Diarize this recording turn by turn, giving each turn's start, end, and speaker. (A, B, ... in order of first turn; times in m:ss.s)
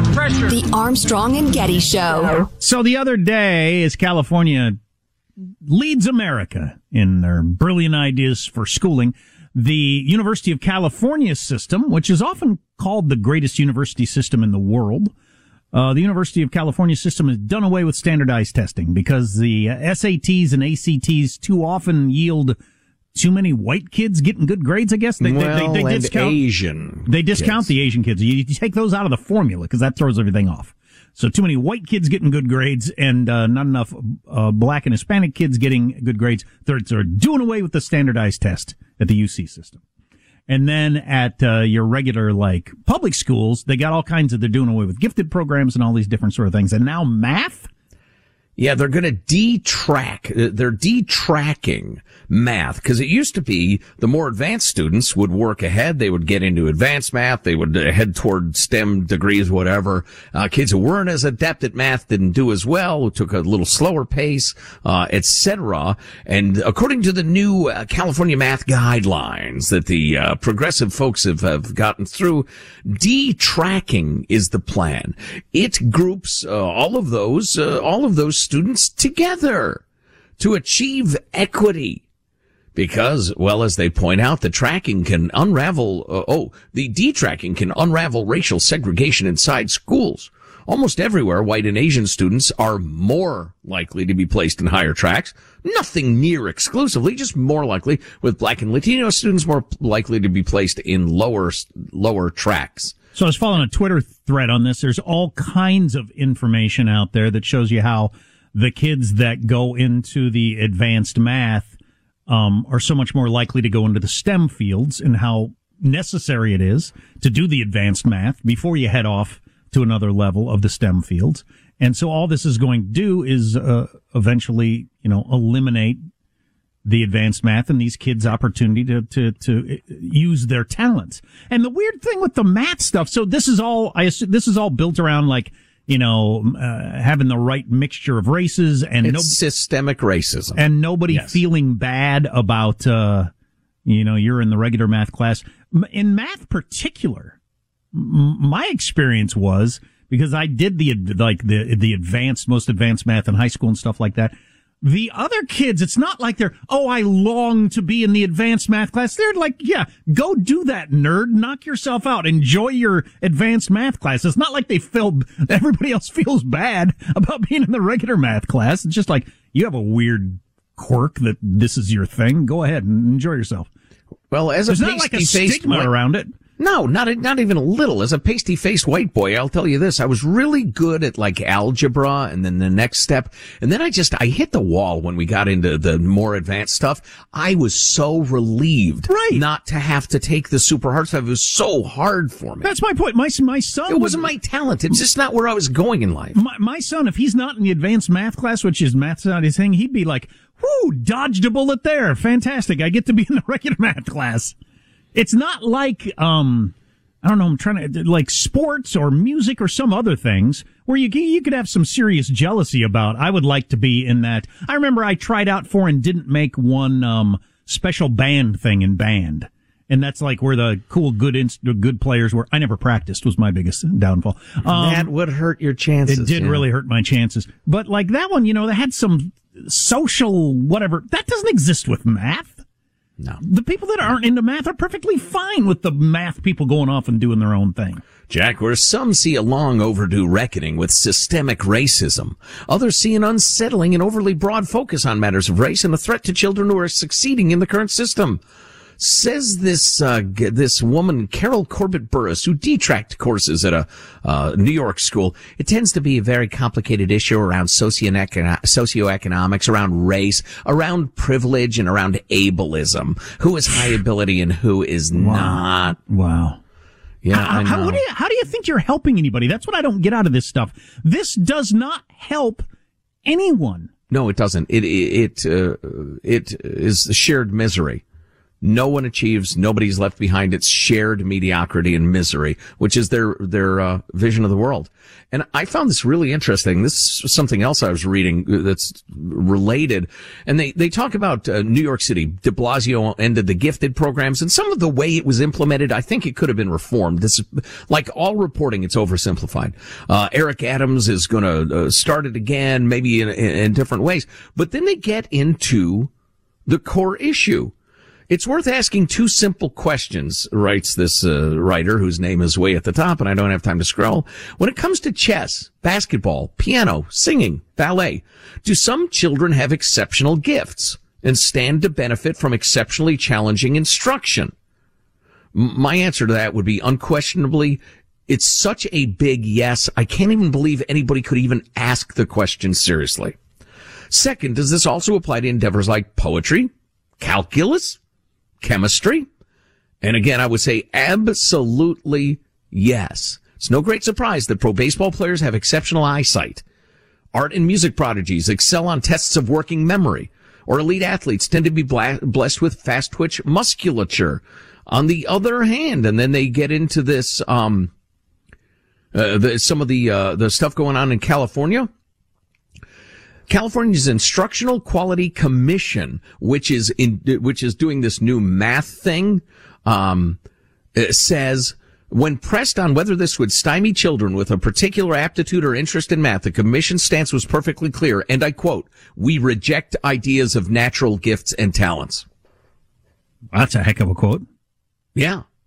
0:00.4-0:02.5 A
0:02.6-0:04.8 B
0:05.6-0:15.1 B
0:15.7-0:22.6 B
0:23.1-0:26.4 B
0:25.2-0:27.7 C
0:27.1-0:39.8 B
0:40.5-0:47.7 B
0:48.6-1:19.8 C
1:20.4-1:22.0 C
1:22.8-1:42.9 C
1:43.1-1:51.7 B
1:52.3-2:06.0 B
2:06.8-2:19.3 B
2:19.0-2:21.4 C
2:20.6-2:23.3 B
2:23.8-2:27.3 B
2:27.9-2:53.7 B
2:54.3-2:55.9 C
2:54.7-2:56.3 B
2:56.6-3:12.7 C
3:09.1-3:09.4 B
3:12.6-3:14.3 B
3:13.9-3:16.4 C
3:16.3-3:24.5 B
3:25.1-3:45.1 B
3:44.6-3:46.6 C
3:46.1-3:52.6 B
3:53.4-3:58.0 B
3:58.3-4:08.4 C
4:09.0-4:26.0 C
4:25.1-4:26.6 B
4:27.2-4:28.0 C
4:27.3-4:32.6 B
4:33.2-4:33.9 B
4:34.1-4:38.0 C
4:38.6-5:06.1 C
5:06.7-5:07.7 C
5:08.3-5:24.5 C
5:25.5-5:33.4 C
5:34.1-5:38.0 C
5:38.6-5:39.3 C
5:40.0-5:46.6 C
5:47.3-5:57.9 C
5:59.1-6:01.9 C
6:03.5-6:10.4 C
6:11.0-6:22.2 C
6:23.5-6:24.4 B
6:25.2-6:25.4 C